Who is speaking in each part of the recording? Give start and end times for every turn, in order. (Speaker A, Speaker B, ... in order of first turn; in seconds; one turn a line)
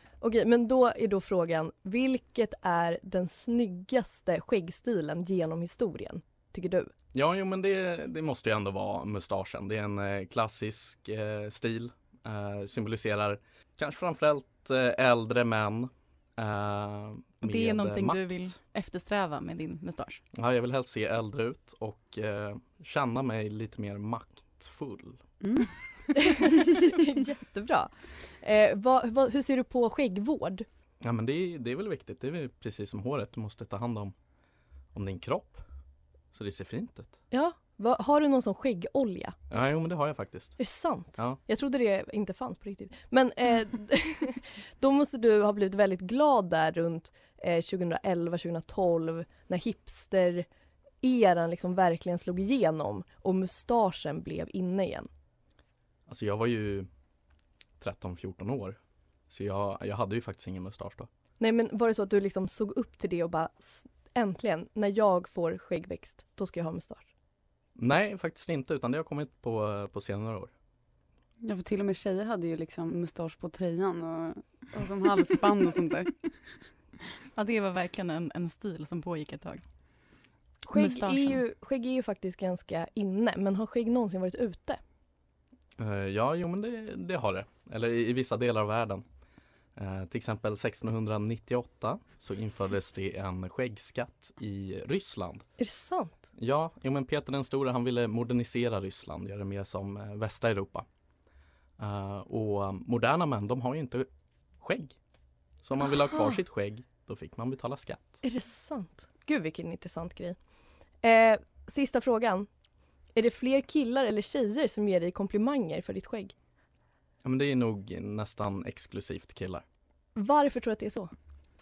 Speaker A: 0.2-6.9
Speaker B: 7.1-18.6
Speaker C: 17.4-20.2
Speaker B: 20.4-25.2
Speaker D: 25.4-25.7
Speaker A: 26.2-30.7
Speaker B: 31.0-34.1
Speaker B: 34.9-35.6
Speaker B: 36.3-37.2
Speaker A: 37.3-39.4
Speaker B: 39.5-40.6
Speaker A: 40.6-50.5
Speaker A: 51.0-55.1
Speaker B: 56.1-56.9
Speaker B: 57.8-58.8
Speaker B: 59.3-61.1
Speaker A: 61.4-67.1
Speaker B: 67.8-70.5
Speaker D: 71.4-76.1
Speaker C: 77.3-79.6
Speaker A: 80.7-84.8
Speaker C: 80.7-81.4
Speaker B: 85.8-89.0
Speaker B: 89.8-95.5
Speaker A: 95.6-96.2
Speaker B: 96.4-100.9
Speaker B: 101.8-104.1
Speaker B: 104.6-105.0
Speaker B: 105.6-108.2
Speaker A: 108.2-110.4
Speaker A: 111.0-112.5
Speaker A: 113.2-116.3
Speaker B: 117.2-119.6
Speaker A: 120.2-121.1